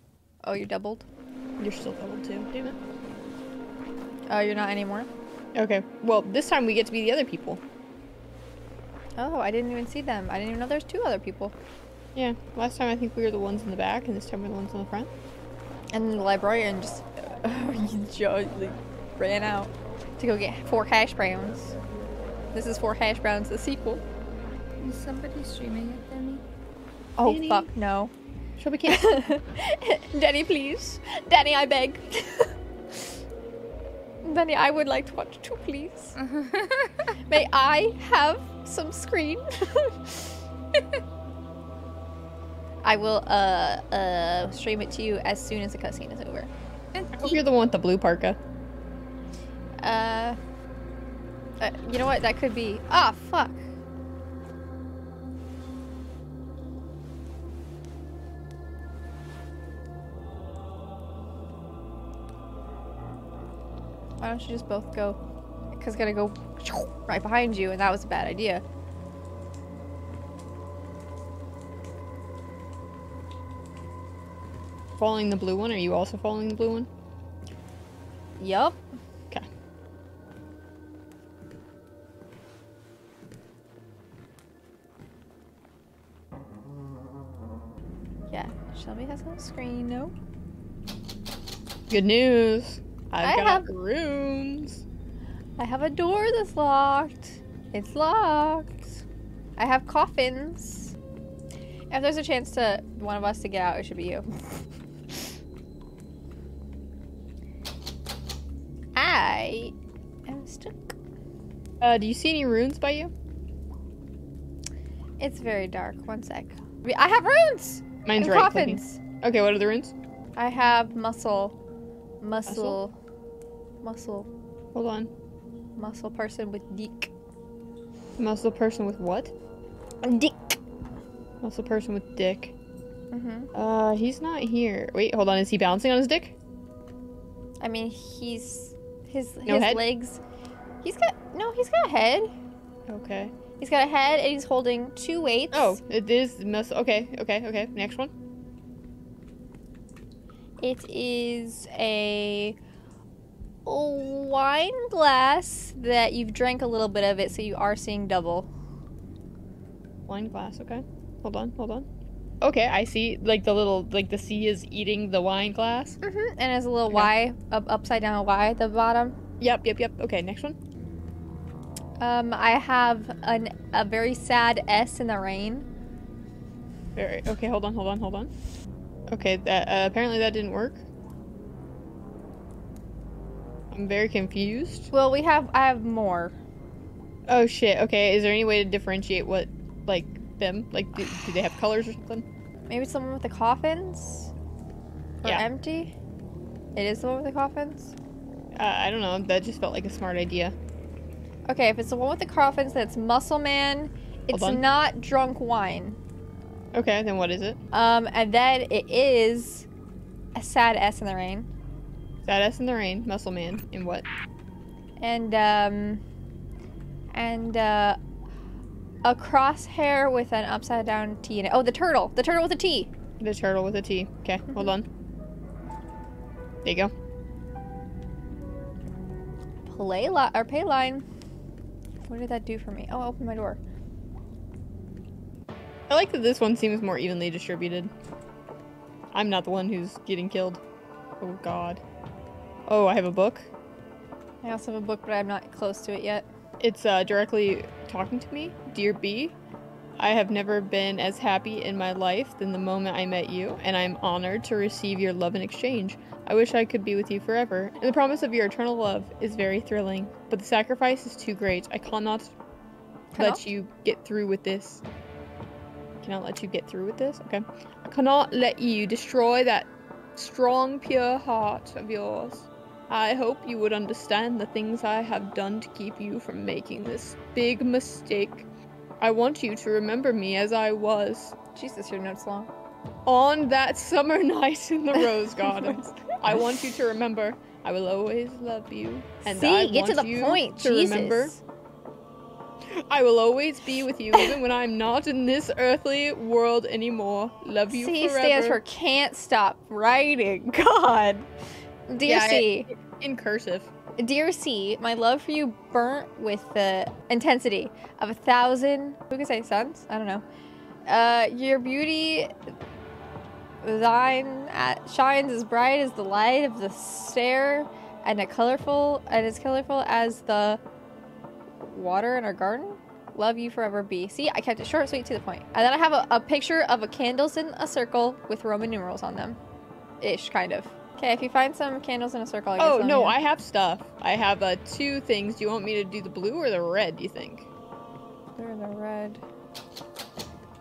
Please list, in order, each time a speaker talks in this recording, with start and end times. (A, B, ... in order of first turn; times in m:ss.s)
0:00.4-0:01.0 A
0:01.6-0:02.8 B
0:04.3-0:05.1 A
0:05.5-0:07.6 B
0:09.2-0:11.5 A
0:12.1-0:15.1 B
0:15.9-0:21.8 A
0:22.5-0:24.0 A
0:24.8-0:26.4 C
0:27.2-0:28.1 A
0:27.2-0:27.7 B
0:28.6-0:29.2 B
0:28.9-0:33.1 A
0:34.2-0:36.1 A
0:36.2-0:37.2 C
0:37.3-0:40.4 A
0:42.8-0:46.5 A
0:47.1-0:48.4 B
0:49.8-0:50.4 A
0:51.6-0:53.6 A
1:04.2-1:05.2 A
1:05.7-1:08.6 A
1:15.0-1:16.9 B
1:18.4-1:18.8 A
1:28.3-1:30.1 A
1:31.9-1:34.8 B
1:33.2-1:33.7 A
1:35.6-1:38.8 A
1:39.6-1:40.9 A
1:41.9-1:44.6 A
1:48.9-1:49.7 A
1:50.3-1:50.9 A
1:51.8-1:53.1 B
1:55.2-1:59.0 A
1:58.0-1:59.9 B
2:00.4-2:01.6 A
2:02.2-2:02.9 A
2:02.4-2:02.8 B
2:03.8-2:04.3 A
2:04.7-2:05.1 B
2:05.8-2:07.1 A
2:08.2-2:09.3 B
2:10.0-2:10.6 A
2:11.4-2:12.5 B
2:13.1-2:13.5 A
2:13.5-2:16.3 B
2:17.6-2:20.2 A
2:19.4-2:19.8 B
2:20.8-2:22.3 A
2:22.9-2:23.3 B
2:23.6-2:25.8 A
2:25.5-2:28.1 B
2:30.6-2:32.6 A
2:33.6-2:38.5 A
2:40.1-2:41.9 B
2:42.4-2:46.0 B
2:46.0-2:49.2 A
2:49.4-2:50.6 B
2:52.0-2:55.6 A
2:56.9-2:58.3 B
2:59.1-3:00.8 B
3:03.7-3:04.9 B
3:04.9-3:06.3 A
3:07.3-3:12.2 B
3:12.7-3:14.3 A
3:15.2-3:15.9 A
3:16.8-3:17.9 A
3:18.5-3:20.5 B
3:21.5-3:26.0 A
3:24.3-3:24.6 B
3:26.7-3:27.6 B
3:27.7-3:29.7 A
3:30.3-3:31.5 A
3:32.2-3:34.1 B
3:35.0-3:36.0 A
3:37.1-3:38.0 A
3:39.0-3:42.9 A
3:43.2-3:44.8 B
3:46.6-3:46.9 B
3:49.6-3:51.0 A
3:52.0-3:53.6 A
3:55.9-3:57.9 B
3:59.1-4:00.6 B
4:01.2-4:01.8 B
4:02.7-4:03.5 B
4:04.4-4:06.3 A
4:06.6-4:09.4 B
4:10.0-4:22.3 B
4:23.1-4:23.4 A
4:23.2-4:24.8 B
4:26.0-4:38.5 B
4:39.0-4:41.3 B
4:41.5-4:42.5 A
4:43.0-4:51.3 B
4:45.0-4:46.2 A
4:49.2-4:51.4 A
4:52.6-4:58.6 B
4:57.7-5:01.3 A
5:01.9-5:02.7 A
5:02.0-5:03.7 B
5:04.0-5:10.2 A
5:10.8-5:12.3 A
5:13.6-5:20.6 A
5:21.6-5:29.4 A
5:30.0-5:33.2 A
5:32.6-5:37.5 B
5:38.4-5:39.2 A